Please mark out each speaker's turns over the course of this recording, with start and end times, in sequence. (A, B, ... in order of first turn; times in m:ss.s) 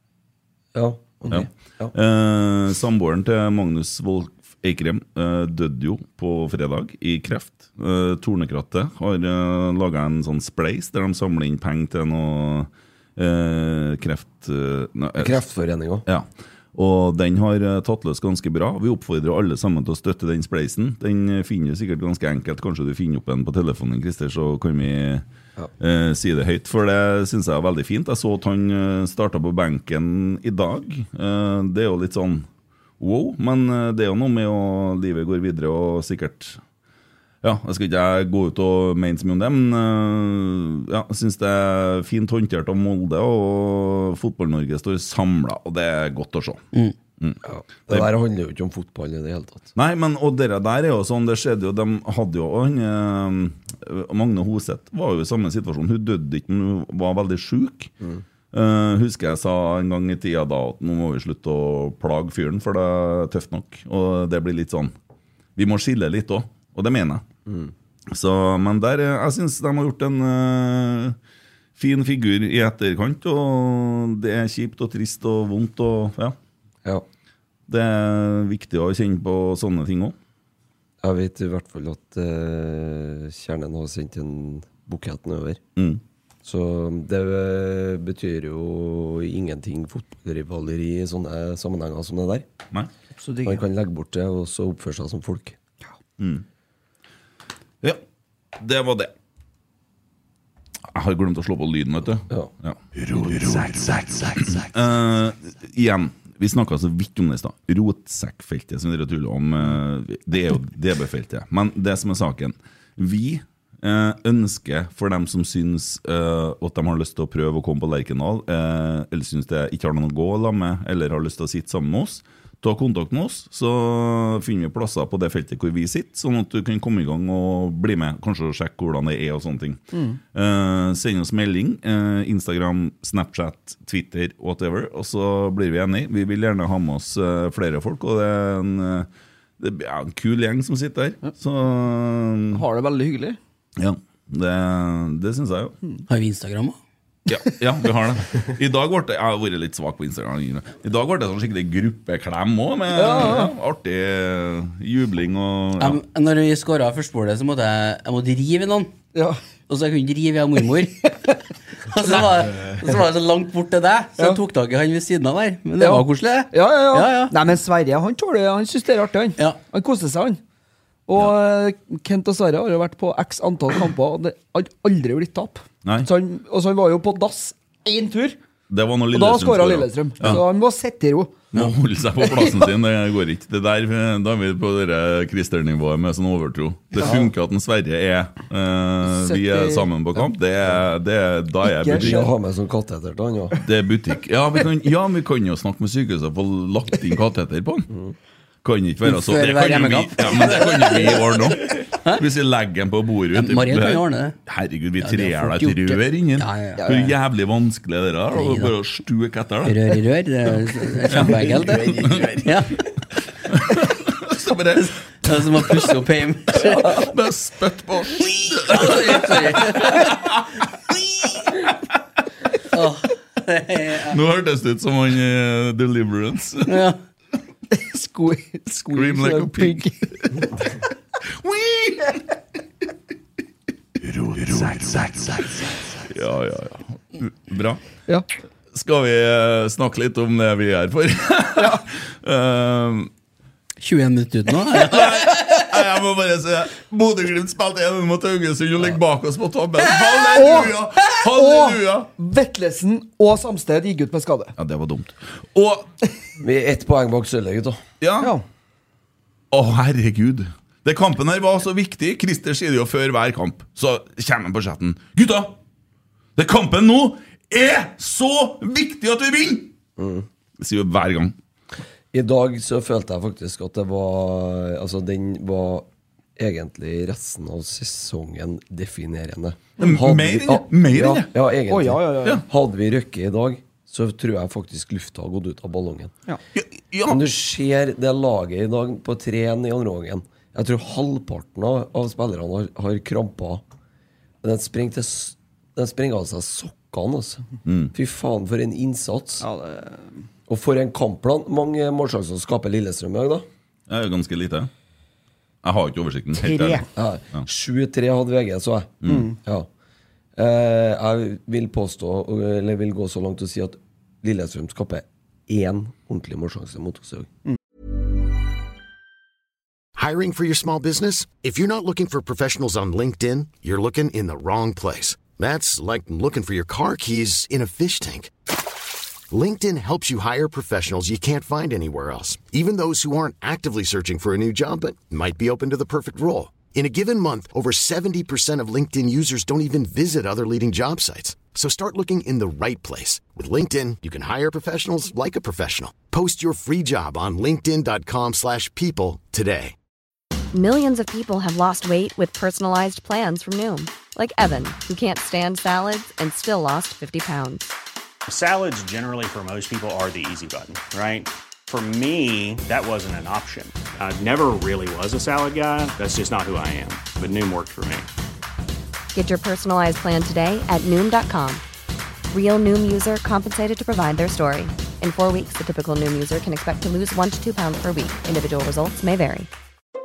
0:00.7-0:01.9 A
0:01.3-0:15.4 B
0:15.2-0:16.0 A
0:16.0-0:25.2 B
0:25.8-0:32.5 B
0:33.0-0:36.6 B
0:37.4-0:46.6 B
0:47.2-0:48.1 B
0:47.4-0:49.7 A
0:49.7-0:57.9 B
0:58.5-1:04.9 B
1:05.6-1:07.2 B
1:07.4-1:07.7 A
1:08.1-1:11.2 B
1:11.8-1:16.4 B
1:17.7-1:20.2 B
1:21.0-1:25.6 A
1:25.8-1:26.0 B
1:26.4-1:32.4 A
1:33.2-1:33.6 C
1:33.4-1:35.6 A
1:36.2-1:36.4 B
1:38.6-1:39.1 B
1:40.9-2:09.8 B
2:09.9-2:10.2 C
2:10.3-2:19.1 B
2:19.6-2:22.6 B
2:22.5-2:23.4 C
2:23.8-2:25.7 B
2:26.1-2:26.8 D
2:27.3-2:36.0 B
2:32.9-2:33.5 C
2:35.8-2:38.9 D
2:39.7-2:41.2 D
2:41.8-2:47.4 D
2:45.8-2:50.4 C
2:51.1-2:58.4 C
2:58.7-3:00.4 B
2:59.1-3:01.4 C
3:01.5-3:12.2 B
3:09.0-3:09.9 C
3:11.7-3:12.3 C
3:11.9-3:13.6 A
3:13.6-3:17.9 B
3:18.6-3:29.8 B
3:19.0-3:21.4 D
3:21.9-3:22.2 D
3:23.3-3:24.4 D
3:25.0-3:26.9 D
3:26.8-3:27.1 C
3:28.3-3:28.7 D
3:29.6-3:32.8 D
3:31.1-3:32.4 B
3:31.3-3:32.5 A
3:33.5-3:35.8 B
3:35.2-3:37.1 D
3:36.6-3:41.7 B
3:38.6-3:40.2 D
3:42.7-3:44.2 D
3:44.1-3:46.8 B
3:46.6-3:47.0 D
3:47.7-3:50.0 C
3:48.8-3:50.5 B
3:51.3-3:52.2 B
3:54.0-3:57.8 B
3:58.7-4:03.1 B
4:03.8-4:05.6 D
4:04.6-4:12.1 B
4:10.3-4:14.5 C
4:14.6-4:15.9 B
4:16.4-4:17.8 A
4:18.0-4:18.3 B
4:18.2-4:18.4 C
4:19.5-4:25.6 B
4:26.4-4:29.7 B
4:30.0-4:30.3 A
4:30.6-4:31.4 B
4:32.1-4:46.1 A
4:39.8-4:41.3 B
4:41.7-4:42.4 C
4:46.5-4:47.2 B
4:47.1-4:53.6 A
4:54.4-4:57.4 A
4:57.6-4:57.9 B
4:57.9-4:59.4 A
4:59.4-5:00.1 C
5:00.5-5:03.5 A
5:03.9-5:04.7 B
5:05.6-5:07.4 B
5:06.4-5:06.8 C
5:06.9-5:09.7 A
5:09.0-5:09.3 B
5:09.1-5:09.3 C
5:10.4-5:17.3 A
5:20.0-5:28.3 E
5:29.3-5:49.7 E
5:50.5-5:57.7 F
5:58.3-6:08.1 G
6:09.1-6:11.6 F
6:12.3-6:19.5 F